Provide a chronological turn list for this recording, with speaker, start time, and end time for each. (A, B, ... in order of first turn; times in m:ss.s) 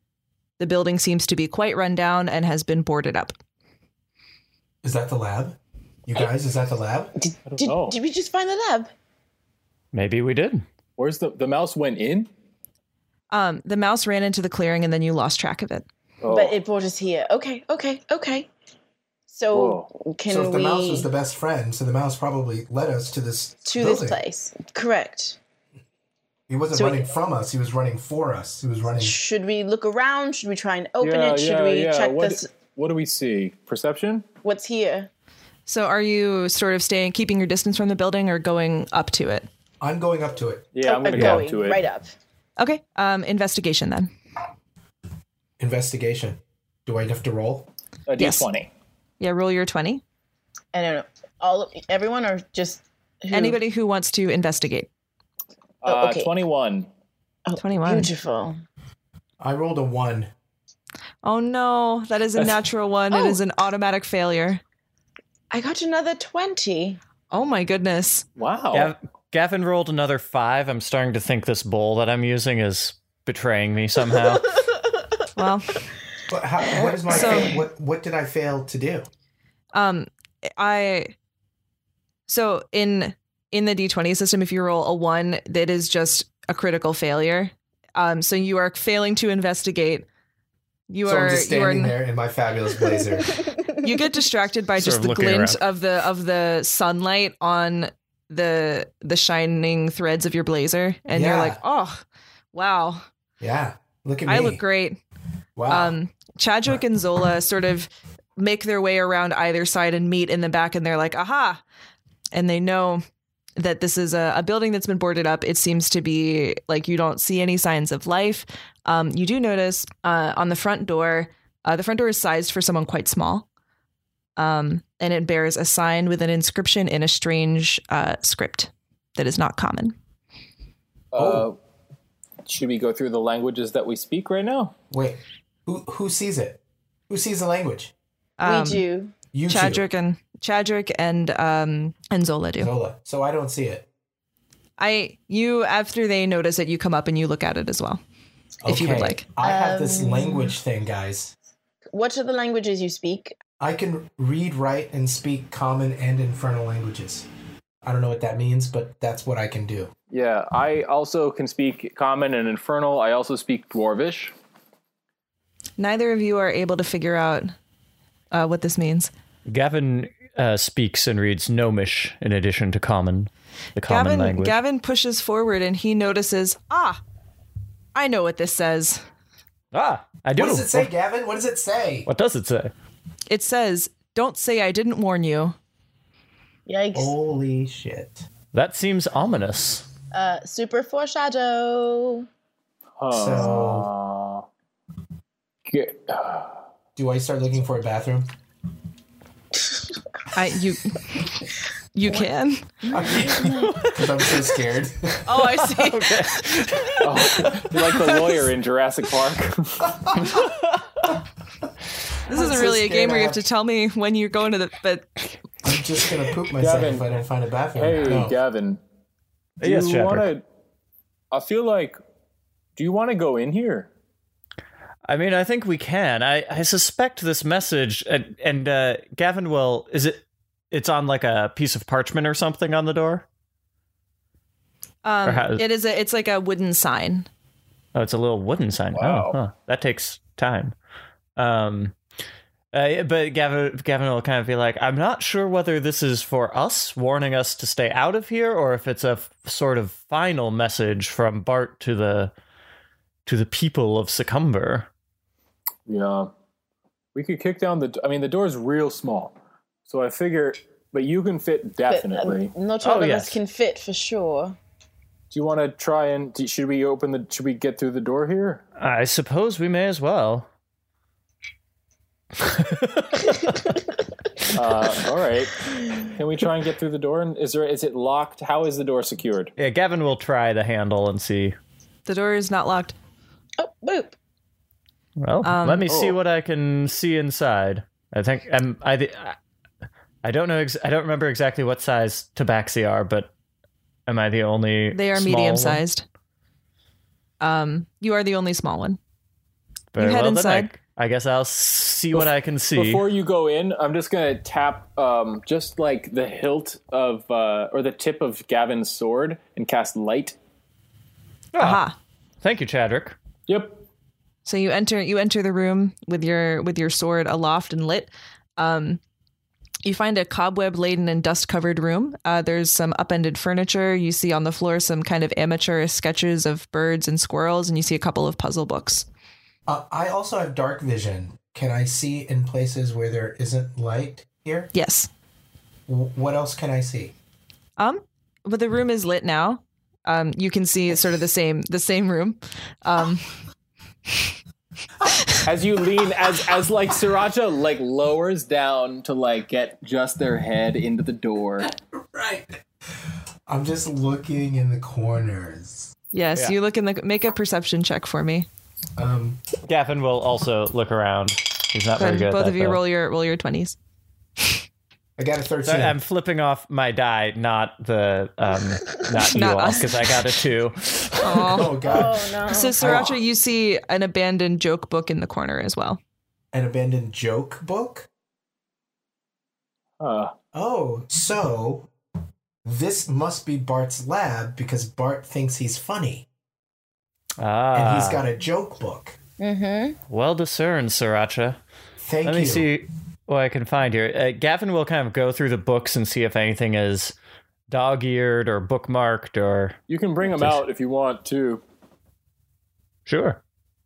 0:00.6-0:03.4 A
0:04.8-0:07.1 B
0:07.2-0:08.9 C
0:07.5-0:08.0 D
0:09.9-0:10.6 E
0:11.0-0:12.3 D
0:13.3-0:15.9 A
0:16.2-0:16.6 D
0:16.3-0:18.5 C
0:19.3-0:21.1 C
0:19.5-0:19.9 D
0:20.3-0:24.2 B
0:23.7-0:25.4 C
0:26.5-0:29.2 B
0:26.7-0:27.1 C
0:29.0-0:32.5 C
0:31.0-0:34.3 D
0:34.4-0:35.1 C
0:35.7-0:39.5 A
0:39.8-0:40.7 B
0:40.7-0:41.8 D
0:40.9-0:42.1 C
0:41.1-0:41.4 E
0:42.6-0:44.1 A
0:45.6-0:47.7 B
0:48.1-0:48.7 D
0:48.2-0:48.5 A
0:49.2-0:50.0 A
0:50.7-0:53.6 C
0:53.3-0:54.9 A
0:55.8-0:56.9 D
0:55.9-0:56.3 C
0:57.5-0:58.6 C
0:57.6-0:58.1 A
0:59.4-1:00.3 B
1:01.2-1:04.6 A
1:05.5-1:07.0 C
1:07.3-1:08.2 A
1:08.4-1:08.9 D
1:08.7-1:14.6 E
1:15.4-1:15.8 A
1:16.3-1:19.1 B
1:16.8-1:17.4 C
1:17.1-1:17.6 A
1:19.7-1:21.1 A
1:22.3-1:30.1 A
1:30.9-1:32.0 A
1:31.0-1:33.4 B
1:33.4-1:33.7 C
1:33.8-1:43.0 A
1:34.8-1:35.6 E
1:41.1-1:41.6 B
1:43.4-1:44.6 B
1:44.3-1:45.0 A
1:45.6-1:46.0 B
1:45.7-1:51.6 A
1:52.3-1:53.0 A
1:53.6-2:03.5 A
2:04.4-2:10.0 A
2:11.1-2:11.6 D
2:11.2-2:11.5 B
2:12.4-2:14.7 D
2:14.9-2:17.9 B
2:18.4-2:18.8 A
2:18.4-2:19.2 C
2:19.3-2:19.8 B
2:19.5-2:22.7 A
2:22.6-2:23.9 B
2:24.8-2:28.0 A
2:28.6-2:31.3 B
2:28.7-2:29.2 A
2:29.4-2:30.6 C
2:31.9-2:33.4 C
2:33.6-2:37.3 B
2:37.8-2:39.9 B
2:40.1-2:44.3 D
2:45.8-2:47.5 A
2:48.3-2:49.1 A
2:49.5-2:54.6 E
2:53.9-2:57.0 A
2:58.0-2:59.0 A
2:59.7-3:00.9 E
3:00.4-3:02.1 B
3:02.1-3:02.7 E
3:03.3-3:05.6 A
3:06.7-3:07.1 C
3:06.9-3:08.3 B
3:08.5-3:09.9 E
3:10.1-3:12.3 C
3:13.0-3:14.5 D
3:13.1-3:13.9 B
3:15.7-3:16.6 D
3:17.0-3:18.3 B
3:20.3-3:21.2 A
3:22.0-3:22.9 A
3:22.9-3:25.4 B
3:23.4-3:23.8 C
3:25.2-3:26.6 A
3:25.7-3:27.5 E
3:27.0-3:30.0 D
3:30.2-3:31.0 E
3:32.3-3:35.1 A
3:32.3-3:33.4 B
3:35.6-3:38.4 B
3:36.6-3:37.1 D
3:37.8-3:38.8 D
3:39.6-3:40.4 D
3:39.6-3:40.3 E
3:41.3-3:42.0 D
3:42.8-3:43.9 D
3:45.0-3:53.2 E
3:55.0-3:57.3 A
3:55.2-3:55.6 E
3:58.0-4:00.8 E
3:59.0-3:59.4 D
4:01.4-4:02.0 E
4:02.7-4:12.3 E
4:13.3-4:14.9 E
4:15.9-4:16.3 D
4:17.2-4:19.4 D
4:19.9-4:22.5 D
4:21.9-4:24.6 C
4:22.8-4:23.4 E
4:25.3-4:28.6 D
4:28.8-4:30.5 E
4:32.4-4:33.6 E
4:34.5-4:39.5 D
4:35.8-4:36.1 C
4:39.6-4:41.6 E
4:42.1-4:43.0 A
4:43.6-4:44.2 C
4:45.2-4:49.4 E
4:45.4-4:45.9 A
4:45.9-4:46.2 D
4:50.2-4:53.3 E
4:54.1-4:55.8 E
4:54.9-4:56.0 A
4:57.4-4:59.0 A
4:59.9-5:03.1 E
5:00.0-5:00.7 A
5:02.1-5:10.4 D
5:11.5-5:11.8 E
5:11.6-5:12.0 A
5:12.4-5:13.2 E
5:13.5-5:13.8 D
5:14.4-5:19.0 A
5:19.8-5:29.1 A
5:29.7-5:34.7 B
5:34.7-5:35.1 A
5:35.9-5:37.2 B
5:37.8-5:43.3 A
5:45.4-5:51.7 D
5:51.6-5:52.6 B
5:53.5-5:55.9 B
5:56.1-5:58.5 A
5:59.0-5:59.4 B
5:59.7-6:02.8 E
6:02.0-6:03.8 A
6:05.2-6:06.0 B
6:05.6-6:11.6 E
6:09.3-6:10.1 A
6:11.2-6:11.8 A
6:11.5-6:12.3 B
6:11.8-6:13.0 C
6:12.5-6:16.0 A
6:12.8-6:13.2 B
6:16.5-6:18.1 B
6:20.0-6:20.3 D
6:20.5-6:21.9 B
6:22.6-6:26.3 B
6:27.4-6:28.2 E
6:27.7-6:29.2 B
6:29.4-6:30.0 C
6:30.1-6:31.6 E
6:32.0-6:32.7 B
6:32.2-6:37.2 E
6:37.7-6:40.6 E
6:39.9-6:41.6 D
6:43.1-6:43.4 E